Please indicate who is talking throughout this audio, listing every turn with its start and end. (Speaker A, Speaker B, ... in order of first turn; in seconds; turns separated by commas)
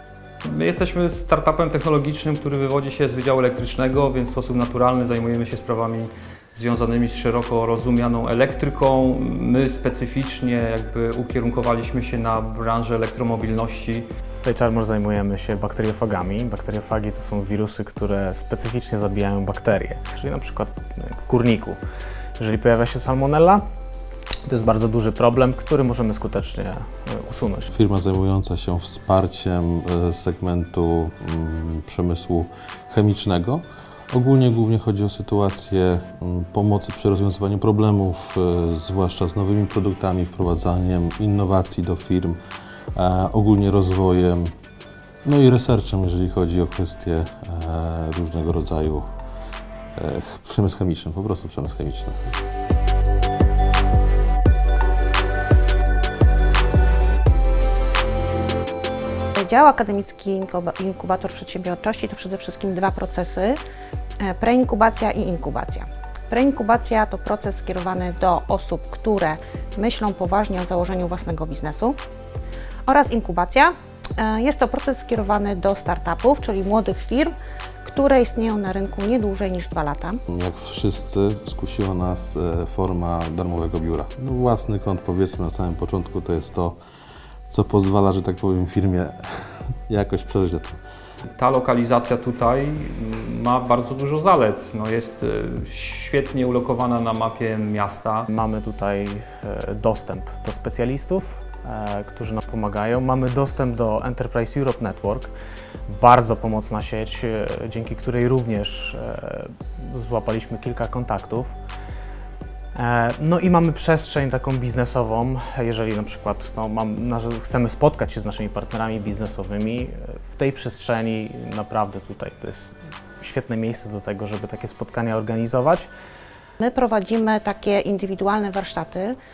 Speaker A: 0.5-14.1, Speaker B: 14.3-21.8, Speaker B: 22.4-23.6, Speaker B: 24.4-27.7, Speaker C: 27.7-42.4, Speaker C: 43.0-44.5, Speaker C: 45.2-49.1, Speaker C: 50.0-52.2, Speaker D: 59.4-63.6, Speaker D: 64.2-72.0, Speaker D: 72.9-80.2, Speaker C: 80.3-86.8, Speaker C: 87.5-89.2, Speaker C: 89.9-90.8, Speaker A: 91.3-98.3, Speaker B: 98.3-105.3, Speaker B: 105.9-111.6, Speaker B: 112.7-125.9, Speaker D: 126.6-129.2